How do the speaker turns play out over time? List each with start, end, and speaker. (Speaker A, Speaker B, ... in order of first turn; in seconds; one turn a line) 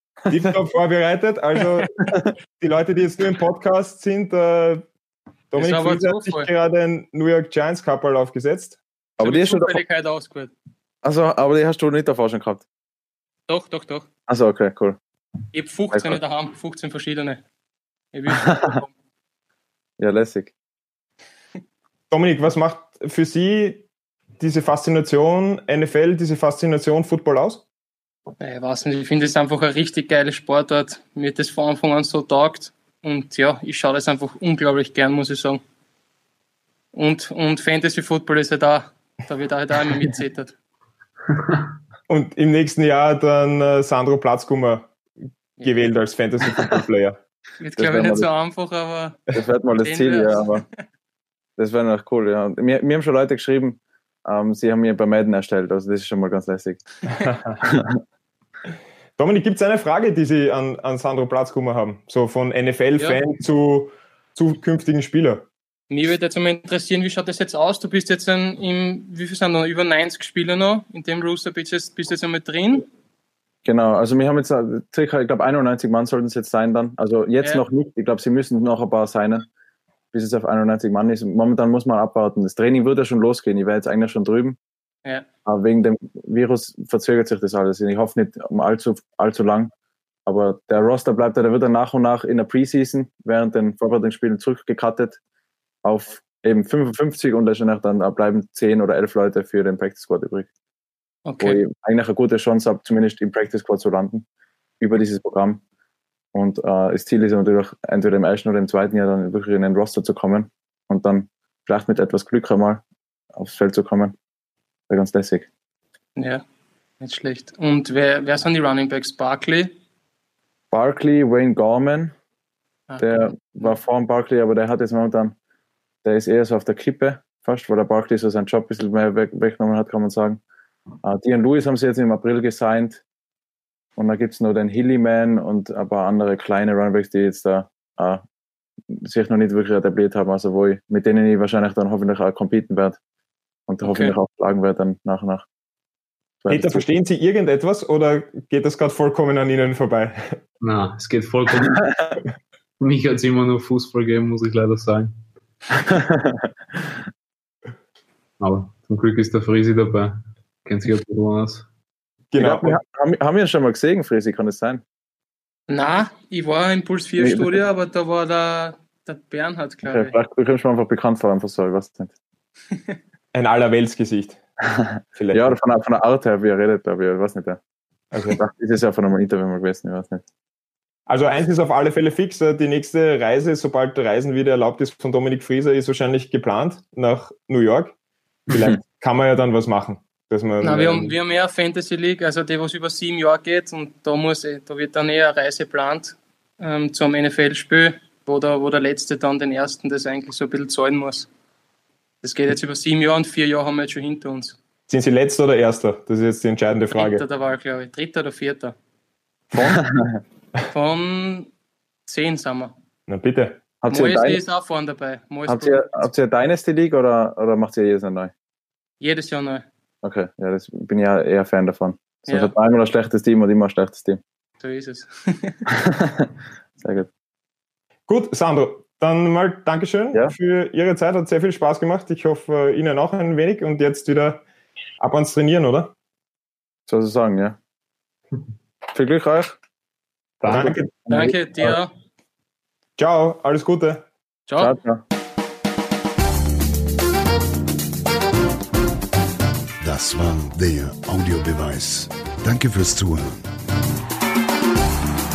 Speaker A: 0.3-0.5
Speaker B: 0.3-1.9
Speaker B: 2.5-4.9
Speaker B: 5.5-8.8
Speaker C: 5.6-6.5
Speaker A: 9.2-9.8
Speaker C: 9.2-10.5
Speaker A: 11.0-12.7
Speaker C: 13.5-14.1
Speaker A: 14.3-15.0
Speaker C: 15.5-17.4
Speaker A: 15.9-16.2
Speaker C: 18.1-18.9
Speaker A: 18.3-18.7
Speaker A: 20.0-20.5
Speaker B: 22.1-23.9
Speaker B: 24.4-27.6
Speaker C: 28.4-35.6
Speaker C: 36.9-40.5
Speaker B: 42.1-44.9
Speaker C: 45.6-45.9
Speaker B: 45.6-47.2
Speaker C: 47.6-50.8
Speaker A: 47.8-48.3
Speaker A: 49.4-50.6
Speaker A: 51.6-56.8
Speaker B: 57.2-57.6
Speaker A: 57.6-58.0
Speaker B: 59.2-65.5
Speaker C: 65.9-72.9
Speaker A: 73.7-79.5
Speaker A: 80.1-84.6
Speaker A: 85.5-89.7
Speaker A: 90.3-95.2
Speaker A: 95.8-100.5
Speaker C: 101.3-101.6
Speaker A: 101.4-104.2
Speaker A: 104.8-105.6
Speaker A: 106.3-112.8
Speaker A: 113.3-114.2
Speaker A: 114.9-115.5
Speaker C: 116.2-116.4
Speaker C: 117.0-119.8
Speaker A: 120.7-122.1
Speaker C: 122.9-123.7
Speaker A: 123.0-125.3
Speaker A: 126.0-130.4
Speaker A: 131.0-133.0
Speaker A: 134.0-138.2
Speaker A: 138.9-143.0
Speaker A: 143.7-145.4
Speaker C: 143.8-144.2
Speaker A: 146.4-146.9
Speaker B: 146.5-150.4
Speaker D: 150.6-151.9
Speaker D: 152.8-155.1
Speaker A: 155.8-156.5
Speaker D: 158.4-161.7
Speaker B: 162.3-162.8
Speaker A: 162.4-164.8
Speaker C: 165.7-170.1
Speaker A: 167.2-167.5
Speaker A: 169.8-172.1
Speaker B: 173.3-174.4
Speaker B: 175.2-175.6
Speaker A: 175.3-177.6
Speaker B: 178.1-178.4
Speaker A: 178.3-180.2
Speaker B: 181.1-187.9
Speaker B: 188.5-191.1
Speaker C: 190.6-201.3
Speaker C: 202.2-204.6
Speaker B: 204.9-207.2
Speaker C: 206.9-208.8
Speaker A: 209.6-210.2
Speaker C: 210.7-211.5
Speaker C: 212.1-212.7
Speaker B: 213.1-213.6
Speaker A: 213.8-214.4
Speaker C: 213.9-216.1
Speaker A: 215.5-218.3
Speaker C: 219.0-219.7
Speaker A: 220.0-224.2
Speaker C: 222.3-222.5
Speaker C: 224.6-225.6
Speaker A: 225.7-227.1
Speaker B: 228.1-234.4
Speaker B: 235.0-235.9
Speaker A: 236.9-237.6
Speaker A: 238.9-239.6
Speaker A: 240.4-241.8
Speaker B: 240.4-240.9
Speaker C: 241.1-241.9
Speaker B: 243.0-244.1
Speaker A: 244.6-245.0
Speaker E: 249.8-253.5